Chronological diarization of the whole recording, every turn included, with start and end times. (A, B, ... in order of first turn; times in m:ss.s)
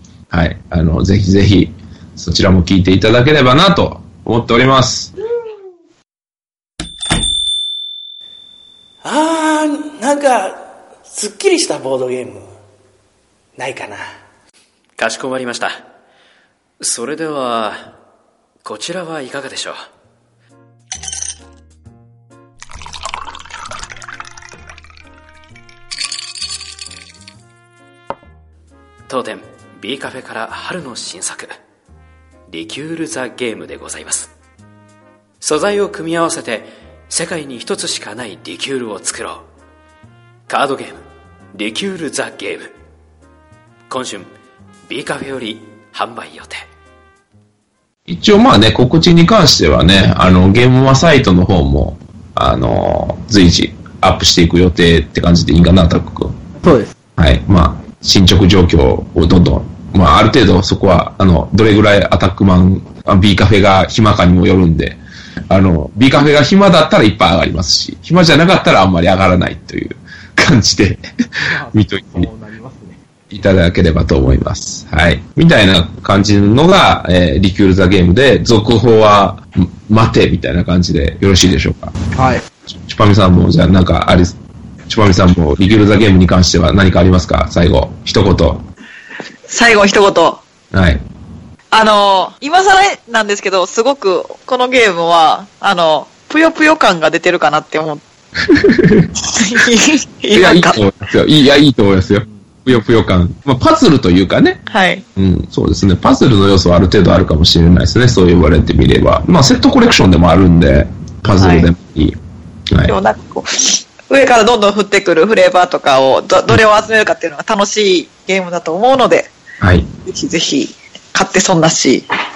0:00.3-0:05.1 A
0:09.0-0:12.4 B
0:13.6-0:14.0 B
0:15.0-0:15.7 C
0:16.8-0:17.8 C
0:18.6-0:19.8 C
0:29.1-0:31.5 C
0:32.5-0:34.3 C
0:35.4-0:39.4 C
0:40.5-0:41.0 C
0:41.5-0:42.7 C
0:43.9-0:44.3 C
0:44.9-0:46.6 C
0:48.1-0:56.3 A
0:56.6-0:56.9 D
0:57.2-1:05.0 A
1:05.5-1:11.0 A
1:11.4-1:13.0 D
1:11.7-1:12.3 A
1:13.3-1:21.9 A
1:22.1-1:22.4 D
1:22.8-1:24.4 A
1:24.9-1:28.6 A
1:29.5-1:30.4 E
1:30.7-1:31.0 A
1:31.7-1:38.0 E
1:38.5-1:39.1 A
1:39.3-1:40.8 E
1:40.3-1:44.6 A
1:44.7-1:45.0 E
1:45.2-1:52.2 A
1:51.4-1:51.7 E
1:52.8-1:59.3 E
1:59.6-1:59.9 A
2:00.1-2:02.0 E